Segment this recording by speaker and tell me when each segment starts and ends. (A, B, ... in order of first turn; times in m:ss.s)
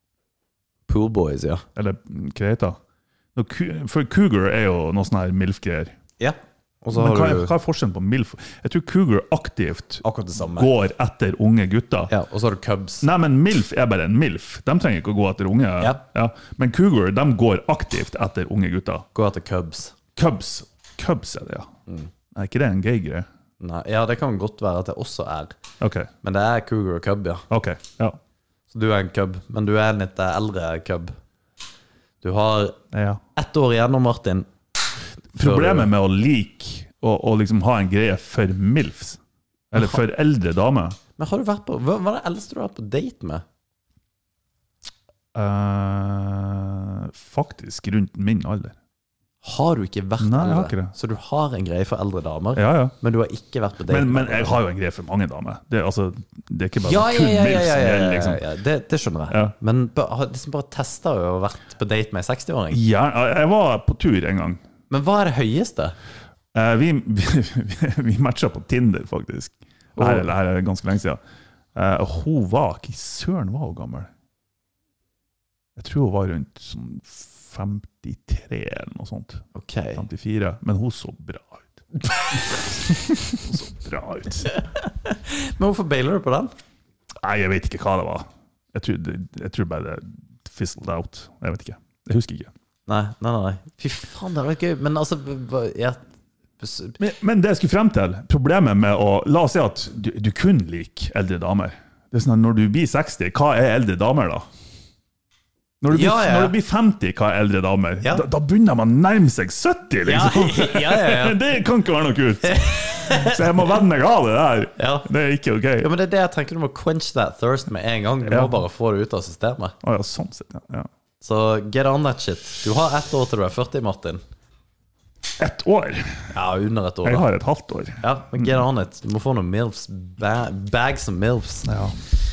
0:00.9-0:01.6 A
0:01.7-0:02.8 B
0:03.3-0:05.9 B
0:06.2-0:07.5 A
0:06.9-0:12.1 B
0:10.0-0:10.7 A
0:12.1-0:13.0 A
0:13.0-0:19.0 B
0:19.1-0:19.9 A
0:20.2-0:21.7 B
0:22.3-0:23.3 B
0:23.6-0:25.6 A
0:25.8-0:26.1 B
0:26.2-0:27.4 A
0:27.5-0:28.2 B
0:28.7-0:31.2 A
0:32.2-0:32.8 A
0:32.9-0:33.2 B
0:33.3-0:34.5 A
0:35.3-0:39.2 B
0:35.4-0:35.9 A
0:39.7-0:41.0 B
0:41.2-0:43.4 A
0:45.3-0:48.7 B
0:49.4-0:54.6 A
0:50.2-0:50.9 B
0:52.6-0:52.9 B
0:53.9-0:58.4 B
0:56.8-1:02.8 A
1:02.7-1:04.6 B
1:04.9-1:06.0 A
1:06.5-1:11.2 B
1:10.0-1:10.3 A
1:11.7-1:14.1 B
1:15.8-1:19.4 B
1:19.6-1:20.0 A
1:20.0-1:21.8 B
1:23.1-1:24.5 B
1:24.5-1:26.5 A
1:27.2-1:32.5 B
1:32.9-1:36.0 A
1:36.6-1:37.0 A
1:37.0-1:44.4 B
1:45.8-1:55.9 B
1:45.9-1:46.5 A
1:50.0-1:51.4 A
1:52.4-1:53.4 A
1:54.8-1:55.1 A
1:55.8-1:59.8 A
1:58.2-1:58.6 B
1:59.8-2:00.9 B
2:01.2-2:04.2 A
2:05.4-2:06.3 B
2:06.3-2:07.3 A
2:07.0-2:08.5 B
2:08.0-2:11.7 A
2:11.7-2:11.9 B